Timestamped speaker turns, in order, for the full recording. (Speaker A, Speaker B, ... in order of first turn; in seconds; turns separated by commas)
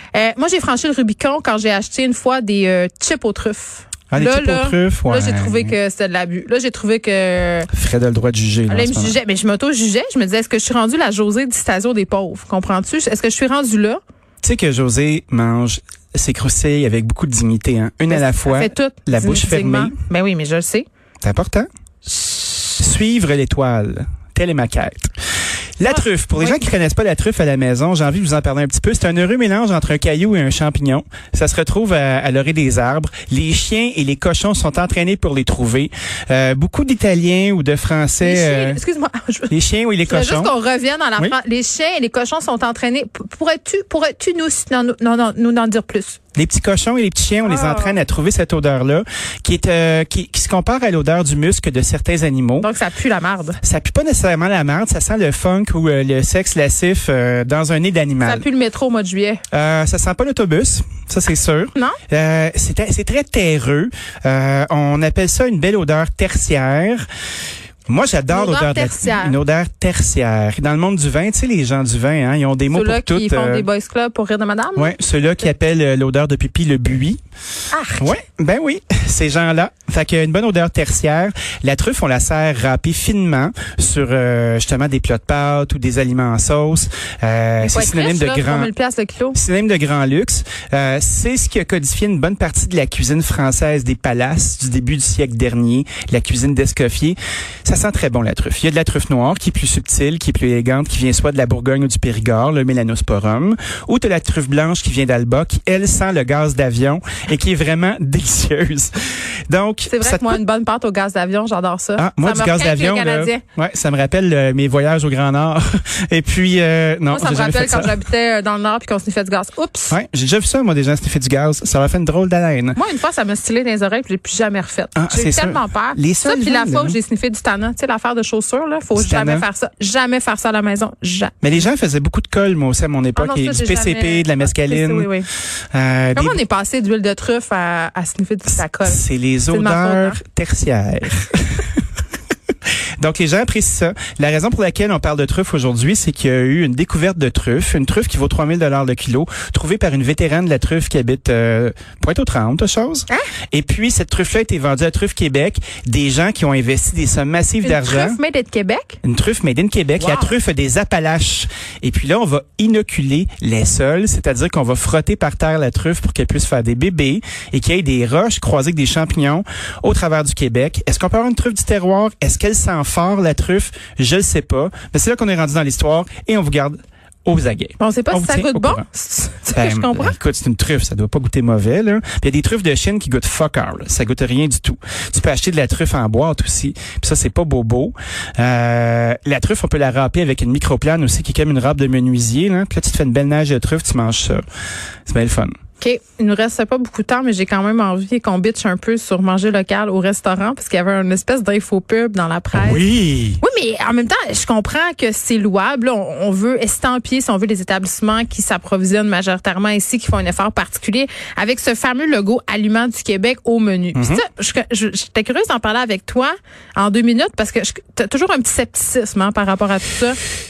Speaker A: 0.1-7.7, Speaker B: 4.1-5.7, Speaker B: 7.7-9.2, Speaker A: 8.7-14.0, Speaker B: 14.4-20.0, Speaker A: 18.1-20.9, Speaker B: 21.2-21.7, Speaker B: 22.8-25.1, Speaker B: 25.8-38.8, Speaker A: 38.2-39.5, Speaker B: 39.5-40.5, Speaker A: 40.1-46.2, Speaker B: 46.4-52.7, Speaker A: 47.5-48.0, Speaker A: 52.6-53.6, Speaker B: 53.6-58.4, Speaker A: 58.2-59.4, Speaker B: 59.5-67.1, Speaker B: 67.9-73.7, Speaker A: 68.3-69.4, Speaker A: 72.7-74.9, Speaker B: 74.8-77.2, Speaker A: 77.7-78.2, Speaker B: 78.0-88.7, Speaker A: 87.6-89.4, Speaker B: 89.3-110.4, Speaker A: 109.9-113.4, Speaker B: 112.0-118.0, Speaker A: 117.1-120.0, Speaker B: 119.9-122.8, Speaker A: 122.8-131.5, Speaker B: 125.0-127.0, Speaker B: 128.9-129.5, Speaker B: 131.4-135.1, Speaker A: 133.2-135.3, Speaker B: 135.7-136.4, Speaker A: 136.2-140.2, Speaker B: 138.8-141.7, Speaker B: 143.0-158.2, Speaker A: 157.6-159.0, Speaker B: 159.0-178.8, Speaker A: 160.0-160.3, Speaker A: 177.8-180.2, Speaker B: 179.5-194.4, Speaker B: 195.1-195.5, Speaker A: 195.8-202.8, Speaker B: 202.5-203.4, Speaker A: 203.4-220.2, Speaker B: 213.9-214.3